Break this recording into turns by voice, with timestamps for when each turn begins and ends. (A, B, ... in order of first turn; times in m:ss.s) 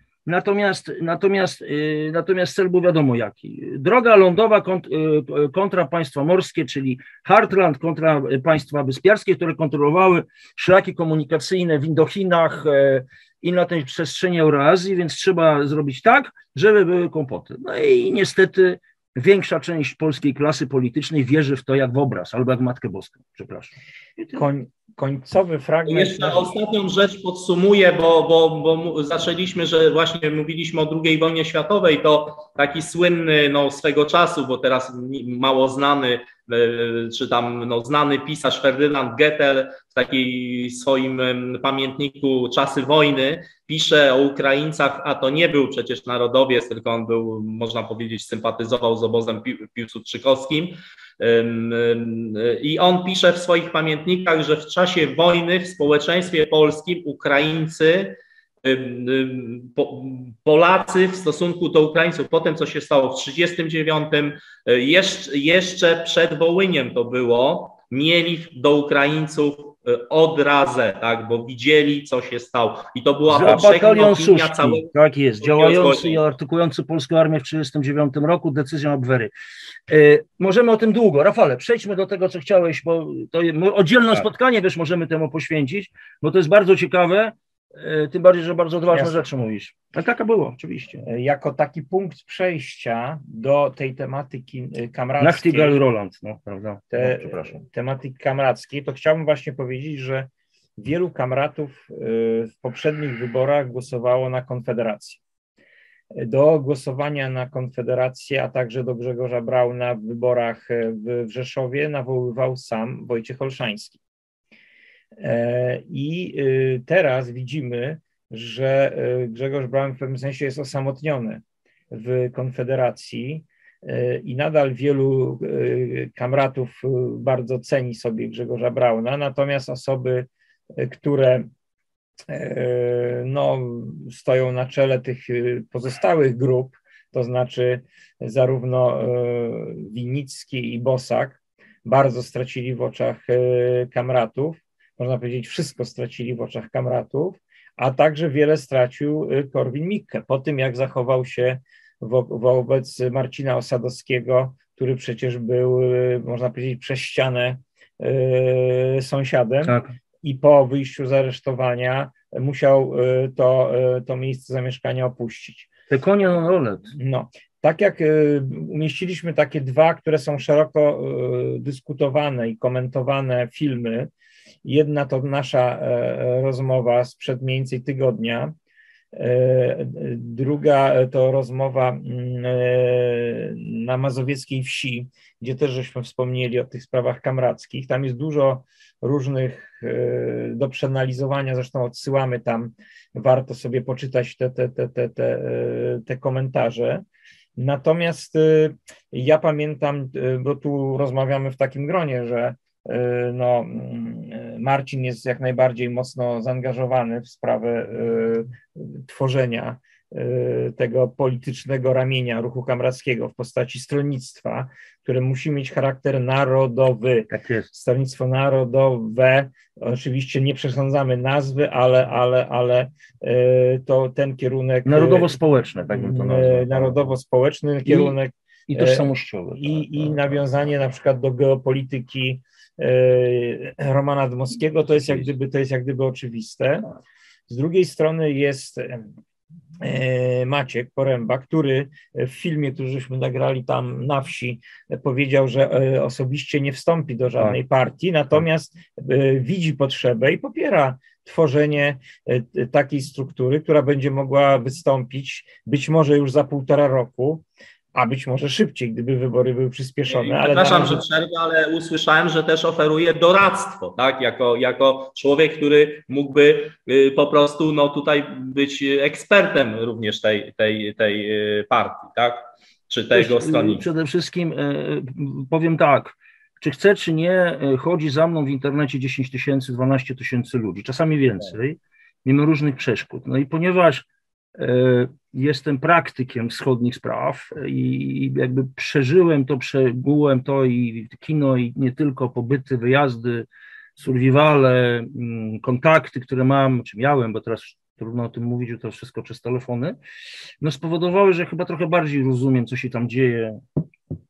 0:00.3-0:24.4 A
0:24.3-0:26.5 B
0:25.9-1:14.9 C
1:13.3-1:19.3 A
1:15.4-1:16.2 C
1:19.9-1:31.0 A
1:28.9-1:29.2 B
1:31.0-1:35.8 B
1:35.2-1:37.6 A
1:36.9-1:45.2 B
1:46.1-1:54.0 B
1:55.2-2:11.5 B
2:12.3-2:45.7 B
2:39.6-2:40.0 A
2:45.9-2:46.9 A
2:47.0-2:54.1 B
2:54.6-2:58.5 B
2:59.1-3:17.0 B
3:17.6-3:45.3 B
3:37.3-3:37.7 A
3:44.9-3:47.0 A
3:45.9-3:49.1 B
3:47.8-3:48.2 A
3:48.7-3:50.4 A
3:49.6-3:56.9 B
3:57.5-3:59.1 B
3:59.8-4:21.0 B
4:20.1-4:33.8 C
4:33.1-4:44.0 A
4:44.6-5:00.0 A
5:00.6-5:03.6 A